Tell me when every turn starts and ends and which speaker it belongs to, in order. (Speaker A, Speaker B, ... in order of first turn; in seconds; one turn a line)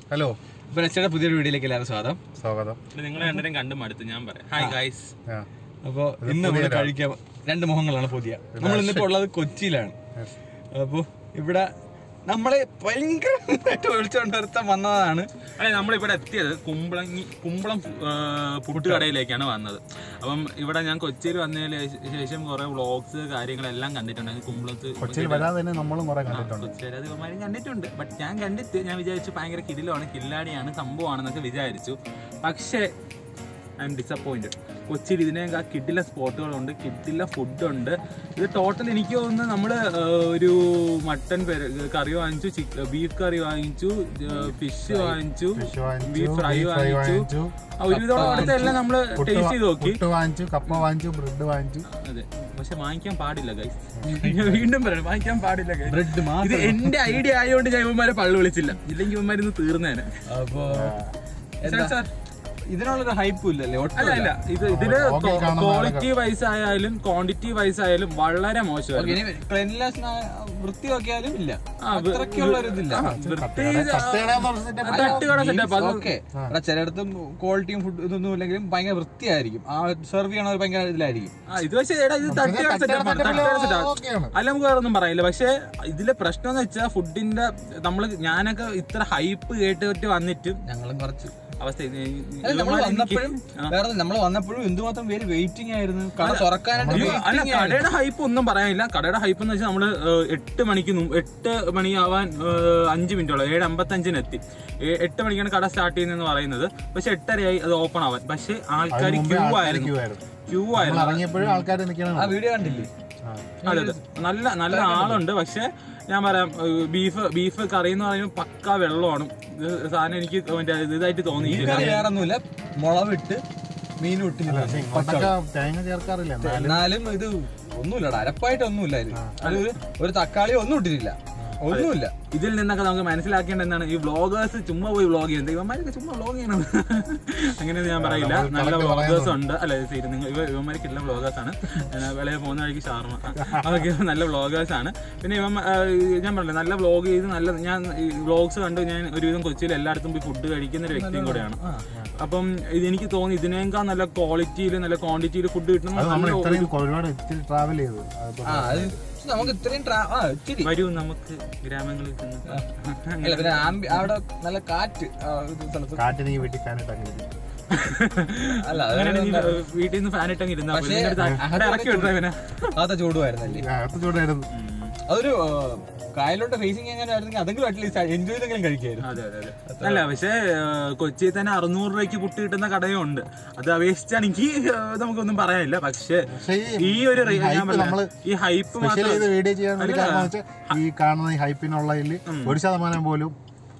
Speaker A: 0.1-0.4
Speaker B: 0.7-2.2
Speaker A: 2.4-2.8
Speaker C: 2.9-5.1
Speaker B: 5.8-9.9
Speaker A: 6.2-6.9
Speaker A: 8.5-9.2
Speaker B: 10.7-11.7
Speaker B: 12.2-15.3
Speaker C: 15.6-25.5
Speaker B: 18.7-19.1
Speaker A: 25.0-26.7
Speaker C: 26.3-32.9
Speaker C: 33.8-47.3
Speaker B: 44.9-45.2
Speaker A: 45.5-47.5
Speaker C: 47.8-50.0
Speaker B: 47.9-48.8
Speaker A: 48.2-51.8
Speaker C: 51.9-60.1
Speaker A: 54.0-54.6
Speaker B: 55.8-57.1
Speaker B: 60.3-60.9
Speaker A: 60.6-61.1
Speaker B: 61.6-62.0
Speaker C: 61.6-62.1
Speaker B: 62.7-64.3
Speaker C: 64.0-69.2
Speaker A: 64.6-66.1
Speaker B: 68.9-73.1
Speaker C: 71.8-76.1
Speaker A: 73.0-75.3
Speaker B: 74.8-81.3
Speaker C: 81.5-90.6
Speaker A: 82.2-84.3
Speaker B: 90.6-91.3
Speaker C: 91.6-93.7
Speaker B: 92.4-97.9
Speaker C: 96.2-109.9
Speaker A: 96.8-97.2
Speaker A: 108.9-110.2
Speaker C: 110.5-111.6
Speaker A: 110.7-112.4
Speaker B: 112.2-112.9
Speaker C: 112.6-112.9
Speaker B: 113.6-114.0
Speaker C: 113.6-122.1
Speaker B: 114.7-115.2
Speaker A: 121.3-122.0
Speaker B: 121.5-123.4
Speaker B: 124.0-125.3
Speaker A: 124.5-126.9
Speaker B: 126.4-132.1
Speaker C: 129.4-129.7
Speaker C: 131.7-151.6
Speaker A: 138.0-139.4
Speaker B: 150.9-151.9
Speaker C: 152.2-156.7
Speaker A: 155.9-159.0
Speaker B: 158.4-160.8
Speaker C: 160.6-164.1
Speaker B: 163.2-166.1
Speaker A: 166.0-167.3
Speaker C: 167.7-172.7
Speaker B: 168.5-169.6
Speaker B: 170.7-172.2
Speaker B: 172.7-173.7
Speaker A: 173.4-174.5
Speaker C: 174.5-174.9
Speaker B: 175.1-179.1
Speaker C: 179.0-190.8
Speaker B: 179.7-180.1
Speaker A: 186.3-188.1
Speaker A: 188.7-193.3
Speaker C: 192.2-192.6